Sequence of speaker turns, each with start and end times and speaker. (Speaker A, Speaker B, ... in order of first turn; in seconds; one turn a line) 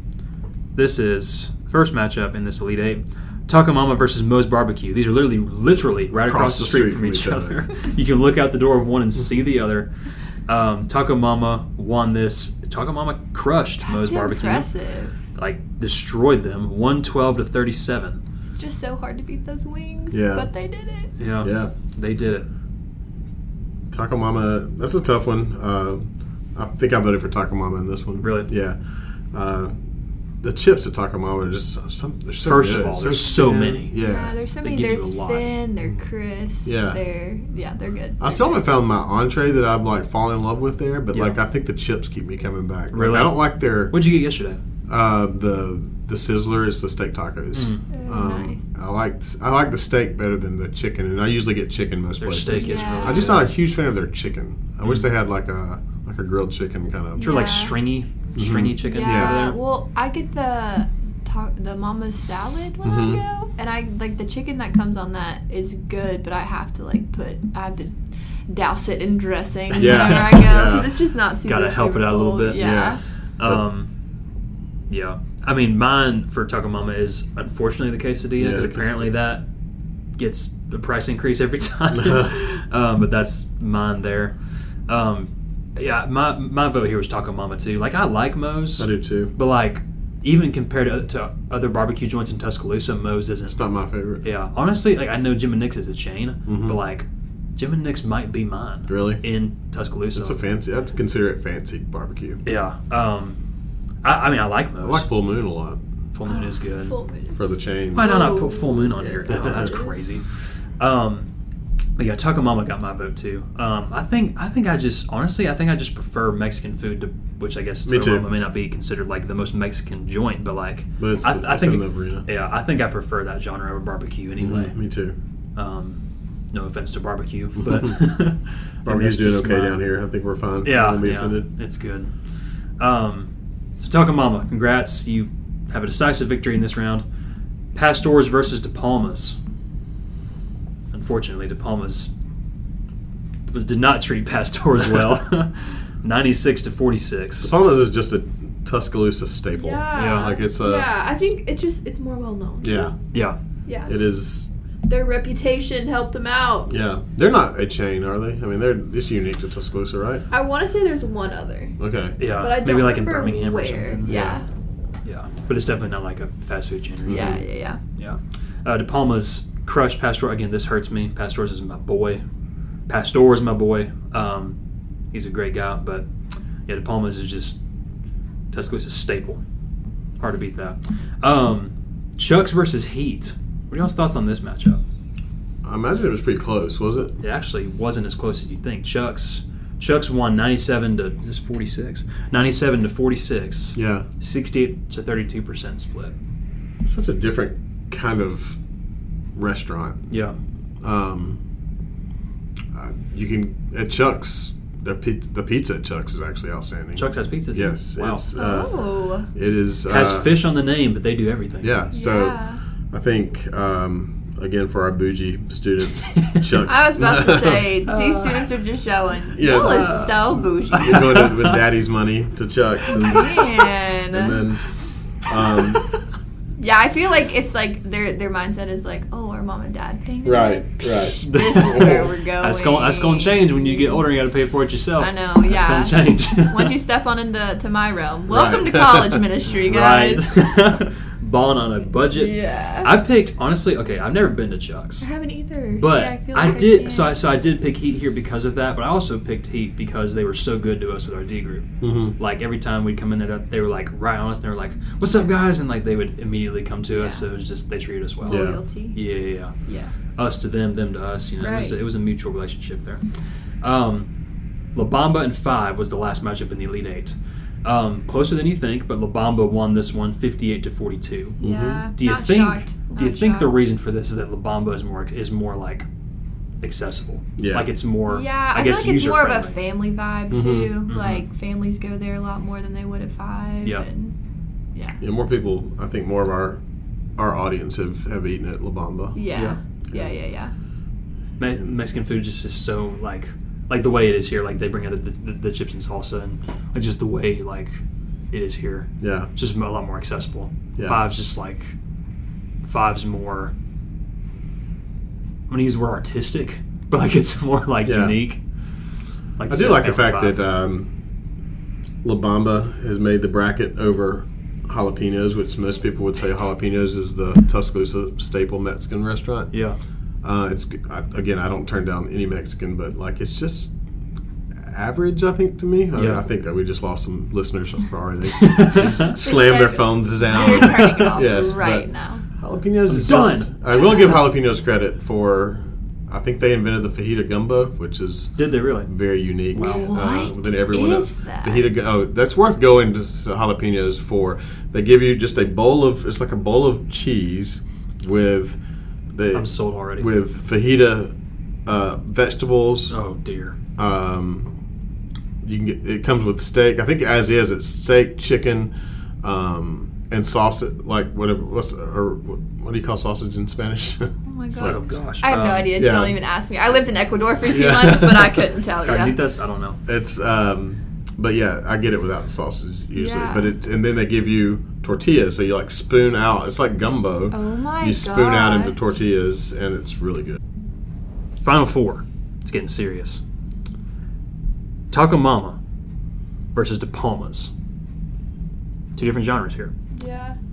Speaker A: 0.8-9.9
Speaker B: 6.2-7.6
Speaker A: 10.5-14.7
Speaker C: 13.8-15.2
Speaker A: 15.3-18.2
Speaker C: 18.6-21.1
Speaker B: 20.1-20.5
Speaker A: 21.2-22.5
Speaker B: 21.4-21.7
Speaker B: 23.9-28.8
Speaker A: 28.2-28.5
Speaker B: 29.3-29.7
Speaker B: 30.4-34.3
Speaker A: 32.4-34.0
Speaker C: 34.0-38.6
Speaker A: 34.6-35.5
Speaker B: 36.6-37.0
Speaker B: 38.2-44.0
Speaker A: 42.9-44.6
Speaker B: 44.9-57.5
Speaker A: 47.5-47.8
Speaker C: 47.9-48.6
Speaker A: 52.2-53.5
Speaker C: 52.5-53.3
Speaker C: 57.2-57.8
Speaker A: 57.2-59.6
Speaker B: 58.4-59.5
Speaker C: 58.8-68.0
Speaker B: 62.8-63.2
Speaker C: 68.5-73.0
Speaker B: 69.8-70.9
Speaker A: 69.8-70.8
Speaker A: 71.5-73.9
Speaker B: 72.5-73.6
Speaker A: 74.9-79.5
Speaker B: 78.4-79.1
Speaker A: 80.2-84.4
Speaker B: 81.9-82.3
Speaker A: 84.9-93.6
Speaker B: 88.8-89.3
Speaker B: 93.5-94.2
Speaker A: 94.2-100.4
Speaker B: 96.5-96.8
Speaker B: 98.9-99.2
Speaker B: 100.1-102.4
Speaker A: 102.5-103.4
Speaker A: 104.0-105.1
Speaker B: 104.8-105.8
Speaker A: 106.1-107.0
Speaker C: 106.3-110.0
Speaker B: 107.4-108.3
Speaker A: 107.9-110.2
Speaker B: 109.3-109.7
Speaker A: 110.8-111.3
Speaker A: 112.0-124.8
Speaker B: 117.9-118.3
Speaker B: 121.0-122.2
Speaker B: 124.4-125.2
Speaker A: 125.6-126.0
Speaker A: 126.5-129.8
Speaker B: 128.8-131.5
Speaker A: 130.6-132.1
Speaker A: 132.8-137.0
Speaker A: 137.7-139.4
Speaker A: 140.9-142.1
Speaker A: 143.5-147.5
Speaker B: 147.4-151.3
Speaker C: 149.6-152.9
Speaker A: 149.9-150.3
Speaker B: 152.6-152.9
Speaker C: 153.7-154.0
Speaker B: 153.9-154.5
Speaker C: 154.9-156.7
Speaker B: 156.7-160.2
Speaker C: 160.3-161.8
Speaker B: 161.8-162.2
Speaker A: 162.2-164.2
Speaker C: 162.3-164.4
Speaker B: 164.1-164.4
Speaker A: 165.1-167.4
Speaker B: 167.1-167.4
Speaker C: 167.1-167.8
Speaker A: 168.0-172.2
Speaker A: 172.9-174.6
Speaker A: 175.1-176.1
Speaker A: 176.7-177.6
Speaker A: 178.5-179.4
Speaker A: 180.2-184.8
Speaker B: 185.6-187.2
Speaker A: 187.2-196.1
Speaker B: 193.8-194.1
Speaker B: 196.8-198.6
Speaker B: 199.4-200.1
Speaker A: 200.1-200.4
Speaker B: 200.8-201.4
Speaker B: 202.7-208.7
Speaker A: 207.0-208.2
Speaker C: 208.3-209.3
Speaker B: 209.3-210.4
Speaker A: 209.9-211.8
Speaker B: 211.6-212.4
Speaker C: 211.9-212.6
Speaker B: 212.9-217.7
Speaker A: 216.2-216.5
Speaker C: 216.6-221.2
Speaker A: 217.9-218.5
Speaker B: 219.3-220.2
Speaker A: 219.5-221.6
Speaker B: 220.7-223.4
Speaker C: 222.9-224.4
Speaker B: 224.1-224.6
Speaker B: 225.3-225.8
Speaker A: 225.5-225.8
Speaker C: 226.6-234.1
Speaker B: 230.2-232.1
Speaker A: 231.2-236.8
Speaker C: 235.0-240.3
Speaker B: 238.3-239.2
Speaker A: 239.4-245.1
Speaker C: 242.0-242.9
Speaker C: 245.0-247.2
Speaker A: 245.7-259.5
Speaker B: 251.8-252.2
Speaker C: 256.9-257.3
Speaker C: 258.2-259.0
Speaker B: 258.3-258.6
Speaker C: 259.6-259.9
Speaker A: 260.2-263.0
Speaker C: 261.4-261.8
Speaker A: 263.6-264.1
Speaker A: 264.8-271.4
Speaker C: 271.4-273.6
Speaker B: 271.4-271.8
Speaker A: 271.9-275.9
Speaker A: 276.6-279.6
Speaker B: 277.4-277.7
Speaker C: 278.1-284.1
Speaker B: 280.3-280.8
Speaker A: 280.9-281.2
Speaker B: 285.0-286.6
Speaker B: 287.2-290.1
Speaker C: 289.1-290.5
Speaker A: 291.4-301.8
Speaker B: 299.0-299.3
Speaker A: 302.6-303.5
Speaker A: 305.5-308.4
Speaker B: 307.8-308.2
Speaker A: 309.4-310.4
Speaker B: 309.5-310.9
Speaker B: 312.0-319.5
Speaker B: 320.2-323.7
Speaker B: 324.6-338.3
Speaker A: 325.9-326.2
Speaker A: 328.3-329.1
Speaker C: 329.1-332.2
Speaker A: 330.4-331.1
Speaker A: 332.9-334.1
Speaker A: 338.4-338.9
Speaker B: 338.9-348.6
Speaker A: 339.5-339.9
Speaker C: 339.5-341.7
Speaker B: 349.1-351.1
Speaker A: 349.3-350.1
Speaker B: 351.7-352.9
Speaker A: 352.9-353.6
Speaker B: 353.8-354.5
Speaker B: 355.4-364.1
Speaker C: 364.3-369.2
Speaker A: 364.5-365.8
Speaker B: 365.8-366.2
Speaker B: 367.4-368.4
Speaker A: 368.8-369.8
Speaker B: 369.9-380.4
Speaker C: 373.0-373.5
Speaker C: 377.3-378.8
Speaker A: 381.4-383.2
Speaker A: 384.9-385.6
Speaker A: 386.5-387.5
Speaker A: 389.0-389.7
Speaker C: 389.9-390.4